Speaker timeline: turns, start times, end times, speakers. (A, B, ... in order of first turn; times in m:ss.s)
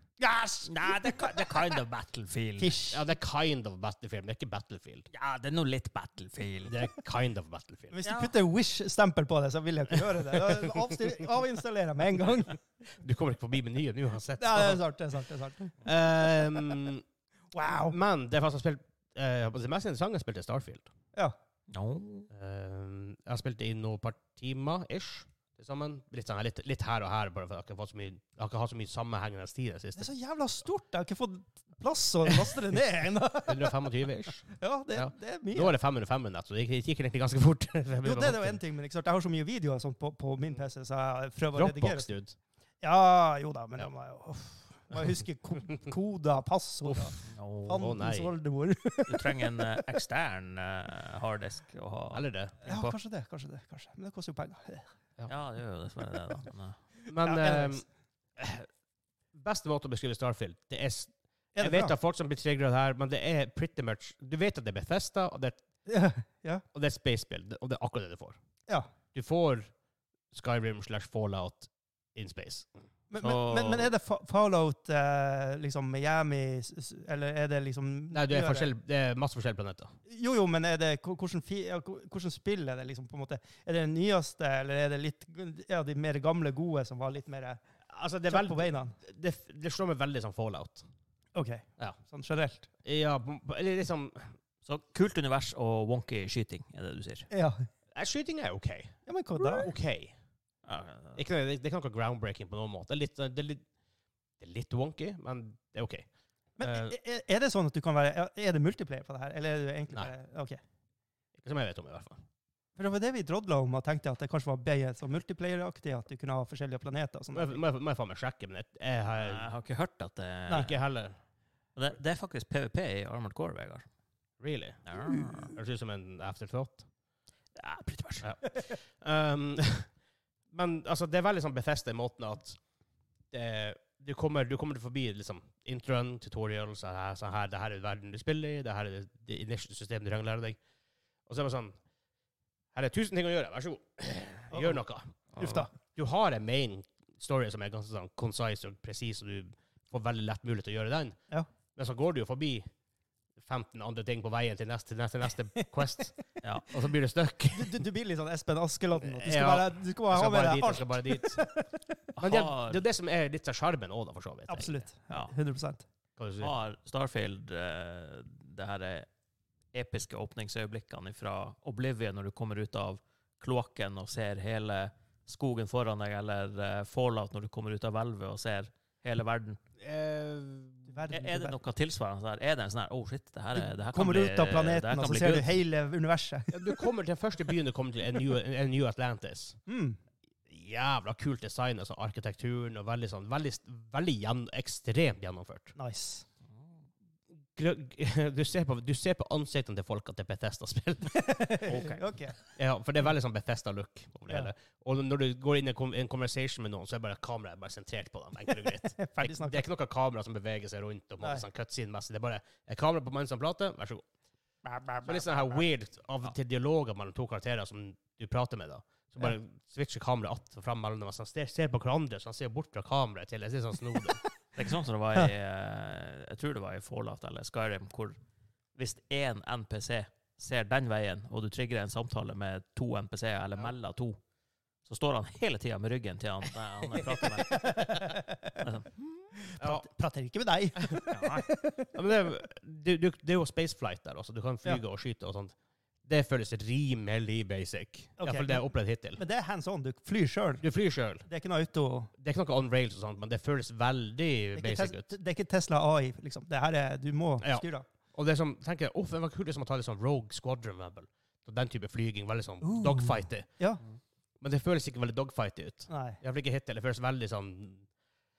0:00.2-0:01.8 A
0:00.6-0:02.8 B
0:02.6-0:03.0 A
0:02.9-0:05.1 C
0:05.1-0:06.8 B
0:06.6-0:08.0 C
0:07.9-0:12.6 A
0:08.0-0:08.3 B
0:13.0-0:14.8 C
0:14.4-0:15.8 A
0:15.8-0:17.0 C
0:17.5-0:18.0 A
0:17.8-0:20.9 C
0:21.7-0:22.3 B
0:22.3-0:30.1 C
0:30.0-0:33.8 A
0:33.5-0:38.6 C
0:34.5-0:35.7 A
0:38.0-0:42.1 A
0:41.6-0:42.4 C
0:42.8-0:49.9 A
0:46.9-0:48.3 C
0:47.3-0:47.9 B
0:49.1-0:53.0 B
0:52.1-0:52.5 C
0:52.6-0:54.9 A
0:55.3-0:56.8 B
0:57.1-0:57.8 C
0:57.2-0:57.8 A
0:58.4-0:58.7 C
0:59.3-1:05.6 C
1:01.6-1:01.9 A
1:05.9-1:06.6 A
1:06.7-1:08.4 C
1:09.1-1:09.7 C
1:10.3-1:12.7 C
1:13.1-1:18.7 A
1:13.2-1:13.9 B
1:18.1-1:20.0 C
1:20.1-1:27.6 A
1:27.9-1:30.9 C
1:28.3-1:29.0 A
1:31.4-1:32.7 A
1:32.8-1:34.4 C
1:34.6-1:37.3 B
1:37.3-1:37.7 A
1:38.0-1:39.0 C
1:39.1-1:39.7 A
1:39.6-1:40.2 C
1:40.6-1:41.2 B
1:41.2-1:43.6 C
1:44.4-1:46.1 C
1:46.6-1:50.6 A
1:46.6-1:46.9 C
1:51.4-1:52.2 C
1:52.8-1:57.6 A
1:57.3-1:59.5 C
1:59.2-2:00.8 B
2:00.5-2:01.2 C
2:01.8-2:03.9 B
2:04.4-2:04.8 C
2:04.9-2:05.5 B
2:05.1-2:05.4 A
2:05.3-2:06.9 C
2:07.6-2:08.3 B
2:08.2-2:09.9 C
2:10.5-2:12.6 C
2:13.3-2:20.6 C
2:21.3-2:21.8 C
2:22.7-2:25.2 C
2:24.5-2:24.8 A
2:25.4-2:25.6 B
2:25.4-2:25.7 A
2:25.8-2:31.2 C
2:31.7-2:32.7 C
2:33.4-2:36.2 C
2:36.4-2:36.7 B
2:36.7-2:37.8 C
2:37.5-2:42.0 A
2:39.0-2:41.4 C
2:42.2-2:42.8 B
2:42.2-2:44.8 C
2:44.5-2:45.8 A
2:46.2-2:46.5 C
2:46.4-2:49.1 B
2:49.7-2:59.6 B
2:59.8-3:01.0 C
3:00.9-3:01.6 A
3:01.1-3:05.5 B
3:03.6-3:06.8 A
3:06.5-3:09.6 C
3:09.7-3:10.0 A
3:10.5-3:15.8 C
3:15.8-3:16.3 A
3:17.6-3:21.6 C
3:21.1-3:22.4 A
3:21.7-3:22.0 B
3:22.6-3:34.0 C
3:28.5-3:29.6 A
3:34.6-3:35.6 A
3:35.0-3:44.2 C
3:44.6-3:48.2 B
3:48.8-3:54.2 B
3:54.9-3:58.9 B
3:57.2-3:58.6 A
3:59.4-4:01.9 A
3:59.6-3:59.8 C
4:01.1-4:01.5 B
4:01.9-4:09.2 C
4:08.2-4:10.6 A
4:10.6-4:11.3 C
4:11.2-4:12.1 A
4:12.2-4:15.1 C
4:14.6-4:17.9 A
4:17.4-4:23.5 C
4:22.6-4:23.8 A
4:24.4-4:27.9 C
4:25.9-4:26.2 A